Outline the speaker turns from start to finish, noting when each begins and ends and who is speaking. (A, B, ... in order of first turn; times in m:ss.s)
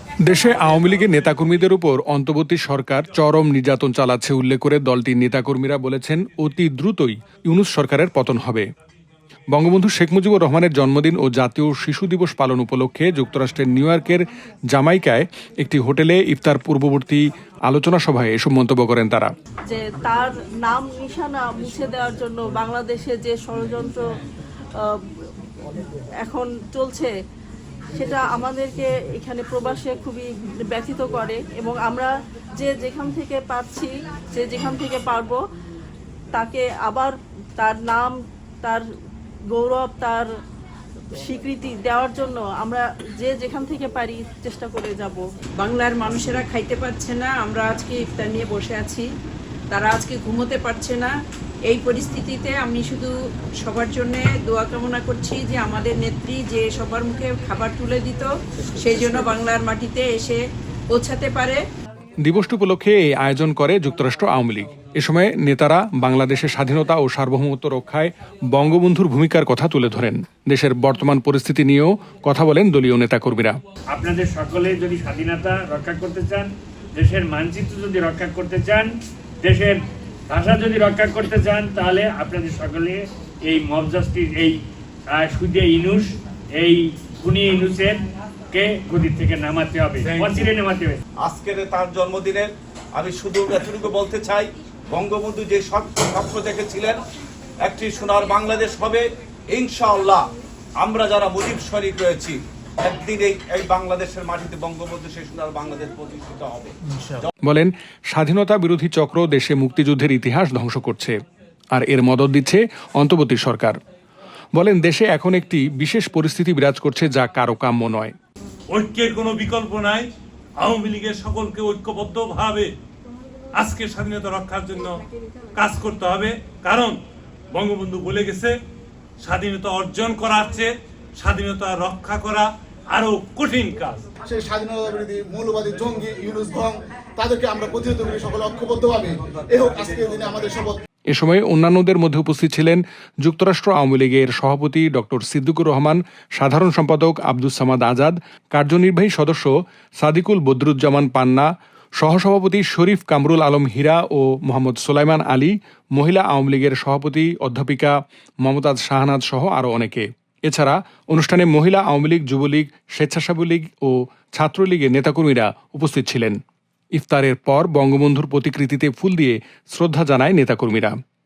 0:00.2-0:08.6 A
0:09.5-0:19.3 A
0:19.7-0:24.0 B
0:26.2-0:27.1 B
0:28.0-0:35.4 B
0:36.3-0:38.8 B
0:39.5-0:40.2 B
0:41.1-0:45.2 B
0:45.6-0:49.1 C
0:49.7-0:51.1 C
0:51.7-1:00.4 C
1:00.9-1:01.6 C
1:02.2-1:13.6 A
1:13.9-1:18.9 D
1:19.4-1:31.0 D
1:30.0-1:30.5 E
1:31.2-1:37.0 F
1:37.6-1:47.3 F
1:47.4-1:51.2 A
1:51.7-1:53.8 A
1:54.5-1:58.1 A
1:58.7-2:02.7 E
2:03.5-2:07.0 E
2:07.5-2:08.6 E
2:09.2-2:14.0 E
2:14.3-2:20.8 G
2:21.1-2:31.5 A
2:32.0-2:46.4 A
2:46.9-2:50.9 A